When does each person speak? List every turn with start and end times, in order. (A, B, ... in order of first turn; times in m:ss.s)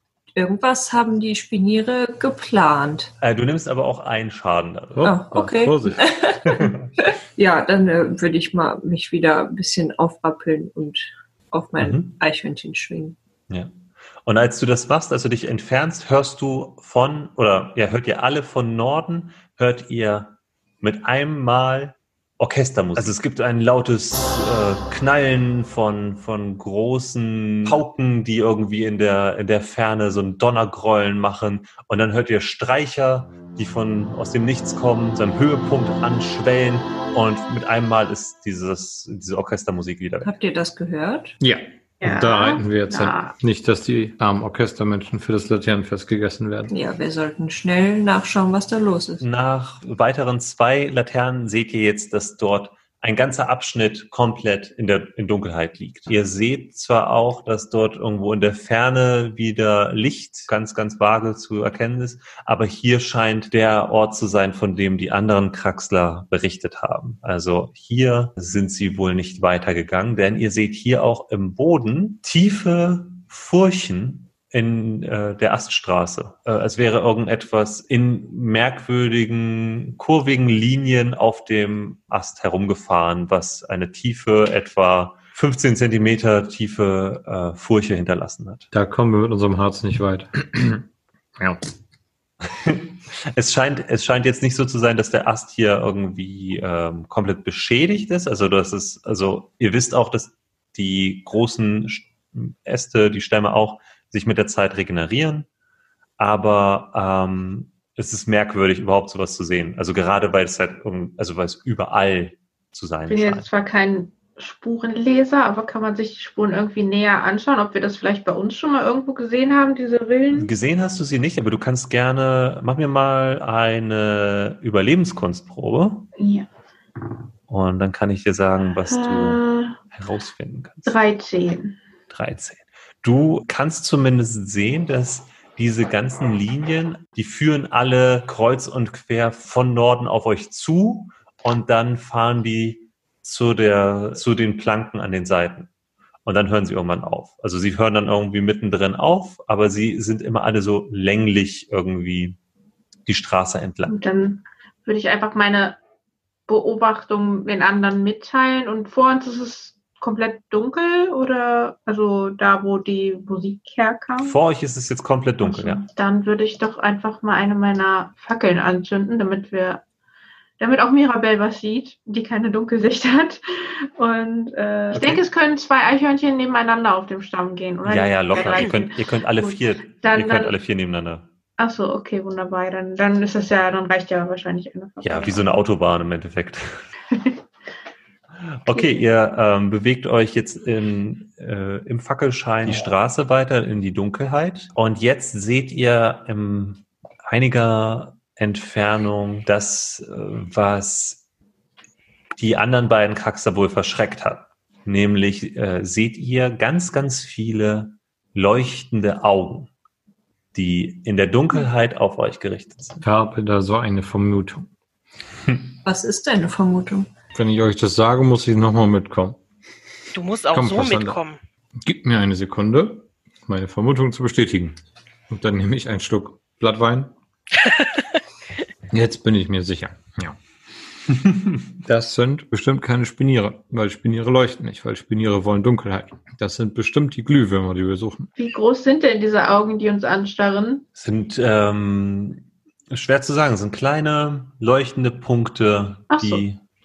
0:00.4-0:03.1 A
0:03.2-0:05.2 B
0:05.0-0:06.1 C
0:05.0-0:13.2 A
0:06.5-0:06.9 B
0:11.8-0:12.1 B
0:14.3-0:40.3 B
0:40.2-0:41.4 A
0:41.4-0:46.7 C
0:42.0-0:43.3 D
0:46.7-0:49.2 A
0:49.2-1:28.7 B
1:28.7-1:31.7 C
1:32.4-1:45.5 B
1:46.2-1:53.5 B
1:53.1-2:00.5 D
2:00.3-2:06.1 B
2:06.2-2:06.5 D
2:07.5-2:11.0 B
2:08.9-2:09.8 D
2:10.9-2:11.8 D
2:12.1-2:25.7 B
2:26.2-2:32.4 B
2:33.1-2:34.0 B
2:33.9-2:35.8 D
2:36.5-2:44.4 D
2:44.2-2:45.8 B
2:45.4-2:49.8 D
2:50.6-3:00.6 D
2:54.9-2:55.3 B
2:57.8-3:01.3 B
2:58.4-2:58.7 E
3:01.6-3:05.4 D
3:05.0-3:06.9 B
3:08.5-3:21.2 B
3:22.3-3:29.7 B
3:30.5-3:33.0 B
3:33.0-3:34.7 C
3:35.8-3:37.1 A
3:37.4-3:39.4 C
3:40.1-3:41.4 E
3:40.5-3:41.2 C
3:41.8-3:47.1 C
3:47.6-3:48.0 E
3:48.9-3:50.4 C
3:51.8-3:58.3 C
3:58.4-4:00.8 D
4:01.0-4:06.6 B
4:06.1-4:06.4 D